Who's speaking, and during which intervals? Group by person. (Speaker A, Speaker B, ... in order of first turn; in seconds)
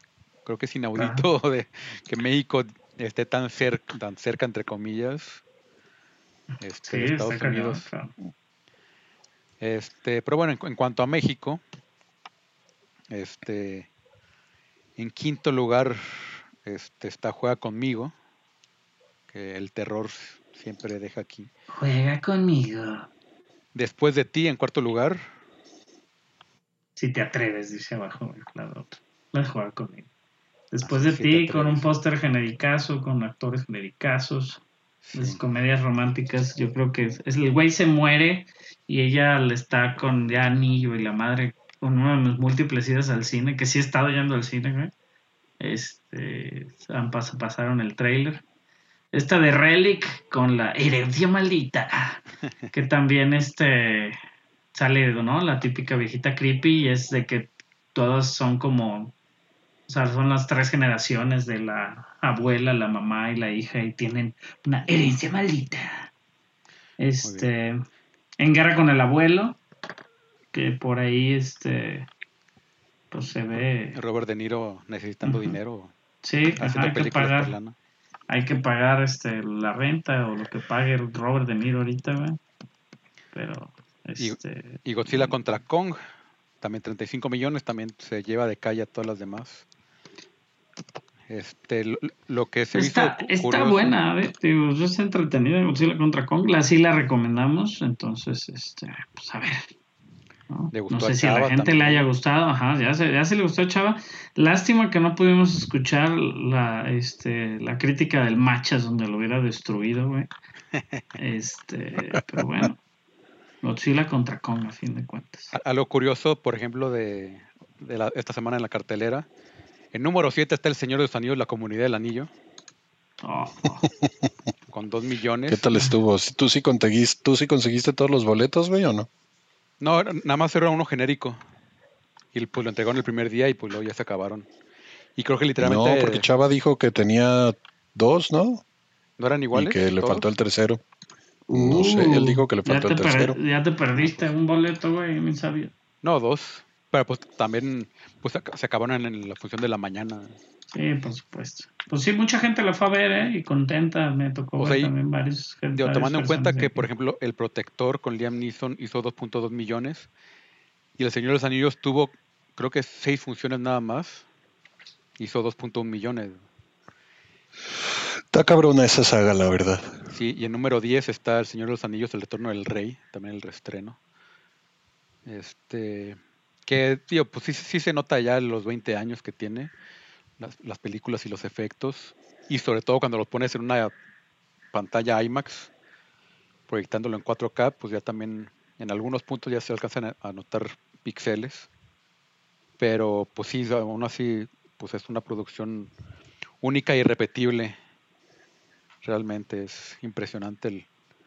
Speaker A: 0.4-5.4, 6.6-7.9, 9.6-11.6, 13.1-13.9, 15.0-18.1, 19.3-21.5, 23.7-25.2, 30.8-31.9, 35.0-35.4, 67.2-67.5, 73.9-75.9, 76.6-77.7, 84.2-86.0, 86.6-89.6, 91.3-94.0, 100.7-102.0, 110.8-111.0, 115.5-119.3, 119.9-122.3, 124.7-125.6, 129.8-131.4, 132.3-134.5, 135.2-136.3, 139.2-140.3, 146.0-150.4, 154.6-154.9, 155.7-160.1, 161.0-164.2, 165.2-166.4, 170.1-174.0, 175.2-179.7, 180.4-183.9, 184.7-185.7, 186.7-191.7, 192.8-195.9, 196.6-197.8, 199.0-200.8
Speaker B: 0.9-1.2, 6.8-8.1, 21.7-23.1, 26.9-30.1, 30.7-34.6, 35.1-44.9, 45.6-48.4, 49.1-54.2, 54.7-59.1, 59.9-66.1, 67.0-67.8, 68.4-69.6, 70.5-72.1, 73.1-74.0, 75.2-75.5, 76.2-77.5, 78.3-82.4, 83.3-85.3, 92.7-99.7, 100.5-110.3, 111.2-112.8, 113.6-115.5, 123.2-123.8, 141.5-145.7, 150.7-156.8
Speaker C: 125.5-129.1, 135.6-138.6, 139.5-140.8, 141.5-143.4, 168.3-169.9